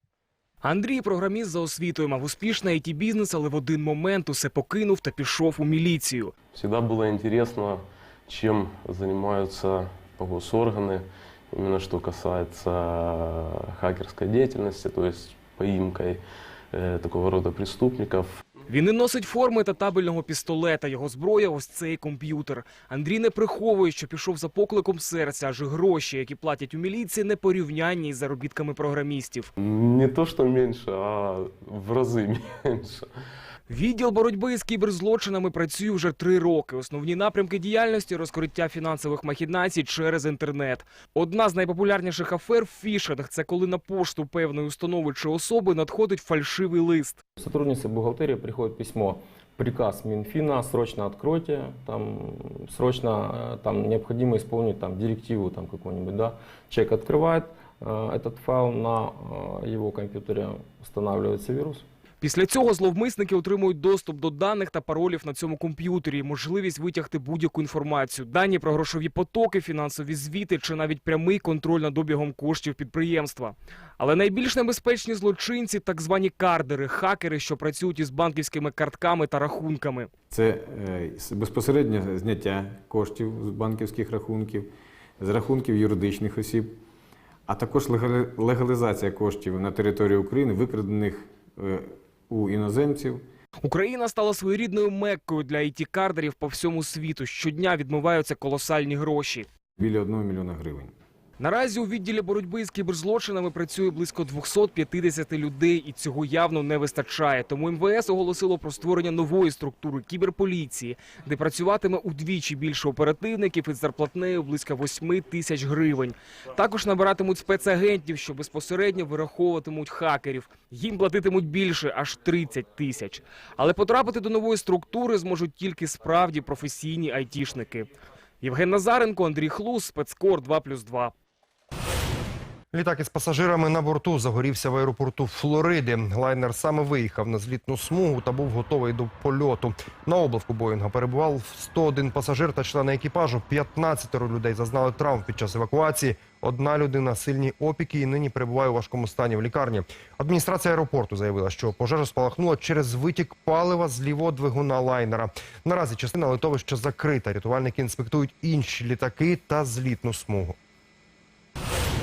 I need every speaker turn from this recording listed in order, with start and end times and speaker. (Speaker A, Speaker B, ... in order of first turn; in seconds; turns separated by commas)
Speaker A: 0.6-6.3, Speaker B: 6.5-18.4, Speaker A: 18.7-29.5, Speaker B: 29.6-33.1, Speaker A: 33.7-47.2, Speaker C: 47.4-61.9, Speaker A: 62.2-80.1, Speaker D: 80.3-84.7, Speaker D: 85.2-86.7, Speaker D: 87.5-93.2, Speaker A: 93.6-99.5, Speaker D: 99.8-100.9, Speaker A: 101.4-131.1, Speaker E: 132.7-160.6